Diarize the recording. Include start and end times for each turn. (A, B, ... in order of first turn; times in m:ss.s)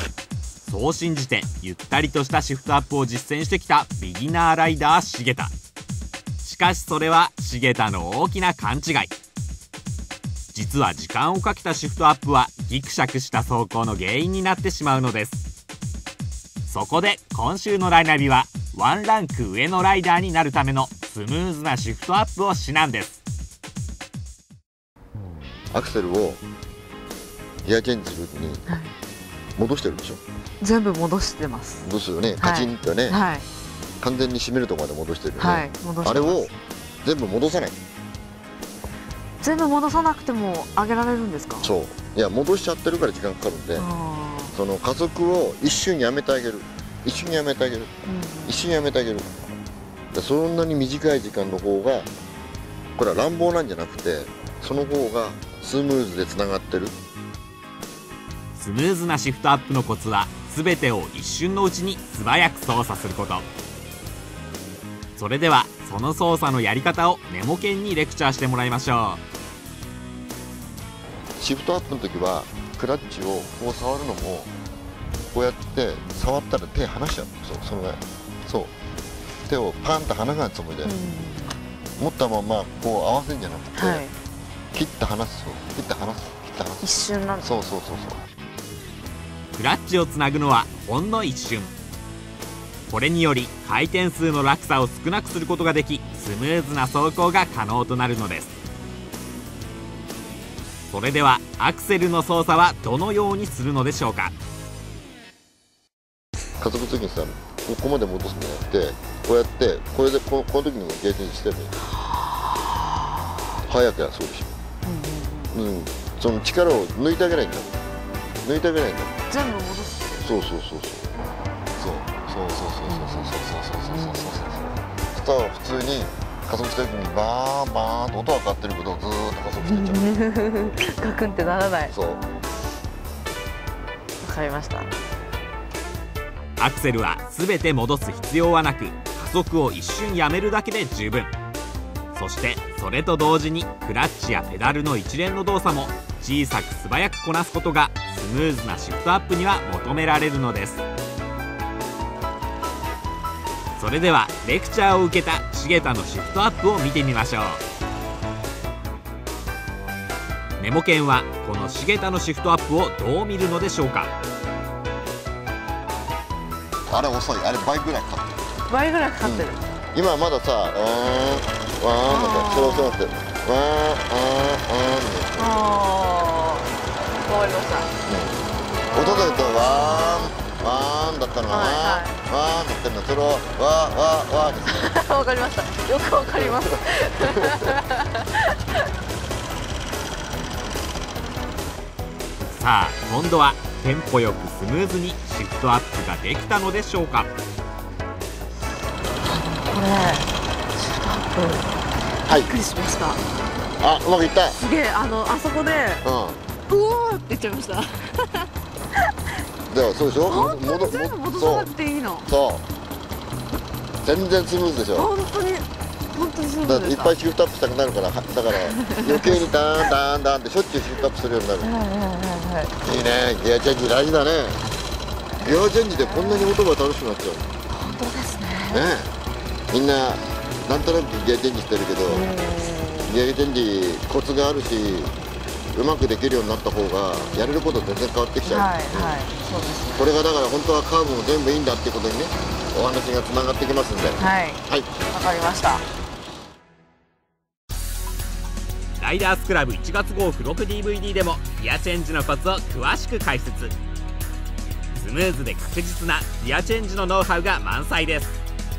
0:00.6-0:05.5 A
0:06.4-0:09.1 A
0:10.5-0:15.5 A
0:16.7-0:23.2 A
0:25.7-0:26.4 B
0:27.6-0:28.7 B
0:28.7-0:28.9 C
0:29.6-0:30.2 B
0:30.6-0:31.9 C
0:31.8-0:33.2 B
0:32.4-0:33.4 C
0:34.0-0:37.8 B
0:35.4-0:36.5 C
0:39.4-0:41.7 C
0:41.6-0:43.9 B
0:43.8-0:44.6 C
0:44.5-0:47.9 B
0:48.0-0:48.6 C
0:48.5-0:49.3 B
0:50.1-0:52.1 B
0:53.0-0:57.0 B
0:58.5-1:03.4 A
1:05.2-1:09.2 A
1:11.4-1:14.5 B
1:15.3-1:18.7 B
1:19.5-1:20.9 B
1:20.8-1:21.6 C
1:22.0-1:24.1 B
1:23.7-1:24.1 C
1:24.7-1:26.9 B
1:26.8-1:27.5 C
1:27.4-1:28.2 B
1:29.5-1:31.7 A
1:32.9-1:38.6 A
1:40.9-1:44.3 A
1:46.6-1:51.7 B
1:53.6-1:54.6 B
1:54.8-1:55.6 C
1:55.5-1:57.7 B
1:58.4-1:59.1 B
1:59.3-2:00.2 C
2:00.2-2:01.1 B
2:01.8-2:10.2 B
2:02.9-2:04.3 C
2:09.6-2:11.9 C
2:11.9-2:12.2 B
2:14.2-2:14.9 C
2:16.6-2:21.3 A
2:22.1-2:30.9 A
2:33.8-2:37.6 A
2:40.6-2:44.1 A
2:46.9-2:48.3 B
2:48.7-2:49.6 C
2:49.2-2:55.5 B
2:52.0-2:53.0 C
2:55.4-2:56.7 C
2:57.2-2:57.9 C
2:58.0-3:04.9 B
3:01.5-3:02.2 C
3:04.7-3:08.8 C
3:06.3-3:06.6 B
3:07.4-3:07.7 B
3:12.4-3:17.3 A
3:19.2-3:21.7 C
3:22.3-3:23.2 C
3:23.8-3:24.6 B
3:24.6-3:26.0 C
3:26.0-3:26.4 B
3:26.7-3:28.5 C
3:29.7-3:31.7 B
3:30.2-3:32.3 C
3:32.2-3:32.6 B
3:34.0-3:35.1 B
3:34.9-3:37.2 C
3:36.6-3:41.7 B
3:38.6-3:39.5 C
3:41.6-3:42.8 C
3:42.8-3:44.6 B
3:45.4-3:47.5 B
3:45.8-3:46.6 C
3:47.7-3:48.9 C
3:48.7-3:49.1 B
3:49.7-3:52.3 B
3:52.1-3:53.2 C
3:53.0-3:55.1 B
3:55.7-3:59.2 B
3:57.1-3:57.6 C
3:58.4-4:00.1 C
4:00.0-4:04.9 B
4:04.2-4:05.8 C
4:09.0-4:13.8 A
4:14.9-4:18.4 A